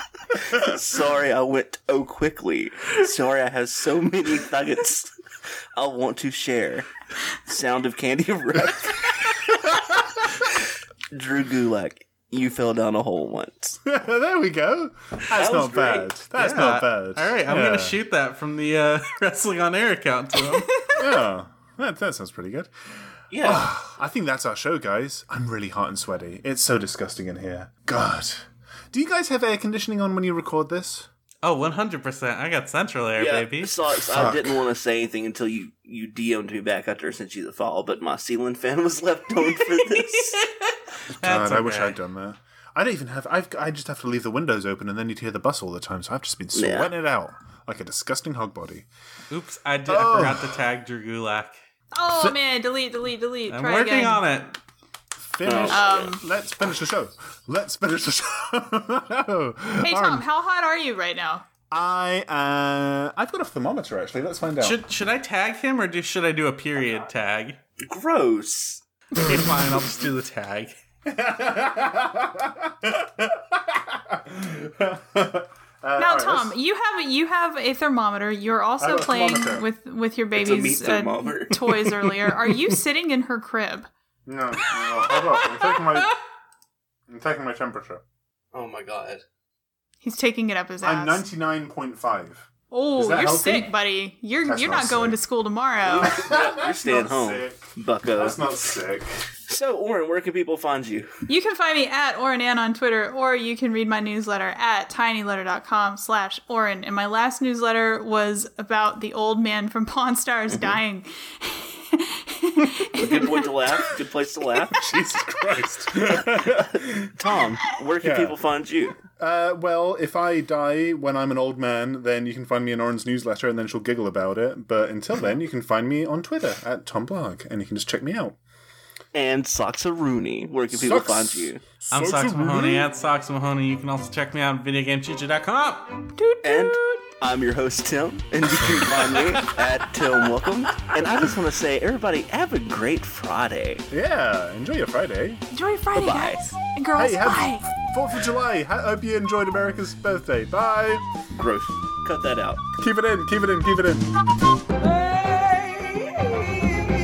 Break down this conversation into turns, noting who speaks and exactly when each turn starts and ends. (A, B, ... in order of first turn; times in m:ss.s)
0:00.4-0:05.1 A
0:05.8-0:06.9 A
0:07.4-0:09.5 A
0:11.1-0:13.8 A
0:13.8-0:18.0 B
0:15.3-0:16.1 A
0:16.4-0:20.8 C
0:21.0-0:22.7 B
0:23.3-0:23.7 A
0:23.4-0:31.1 B
0:31.4-0:33.8 C
0:33.2-0:40.4 A
0:34.1-0:34.6 B
0:39.6-0:42.0 C
0:41.2-0:48.9 B
0:46.6-0:46.9 A
0:49.3-0:51.6 C
0:49.9-0:50.6 B
0:51.9-0:54.2 D
0:52.1-0:52.4 B
0:53.5-0:54.6 C
0:55.2-1:00.2 B
0:55.4-0:56.1 A
0:55.7-0:56.2 D
0:59.8-1:01.5 D
1:01.7-1:04.8 B
1:04.6-1:07.6 C
1:07.8-1:08.8 A
1:09.2-1:10.8 C
1:11.1-1:16.5 B
1:16.0-1:23.9 D
1:18.8-1:19.7 B
1:20.4-1:21.8 A
1:24.3-1:26.2 B
1:27.1-1:28.0 B
1:28.5-1:29.2 A
1:30.0-1:31.2 D
1:30.8-1:33.7 B
1:32.7-1:36.1 D
1:34.4-1:35.2 B
1:35.8-1:38.4 A
1:36.0-1:39.1 B
1:39.5-1:41.1 A
1:41.3-1:53.5 D
1:53.0-1:54.9 A
1:54.7-1:57.2 B
1:56.4-1:59.0 A
1:58.0-1:58.4 B
1:59.1-2:08.4 B
2:09.1-2:11.6 A
2:10.7-2:12.9 B
2:11.9-2:16.1 C
2:16.2-2:17.0 D
2:16.4-2:23.8 A
2:18.6-2:18.9 B
2:23.9-2:25.4 B
2:25.5-2:27.7 D
2:25.9-2:26.4 A
2:26.9-2:31.0 B
2:31.4-2:32.6 A
2:32.8-2:34.1 B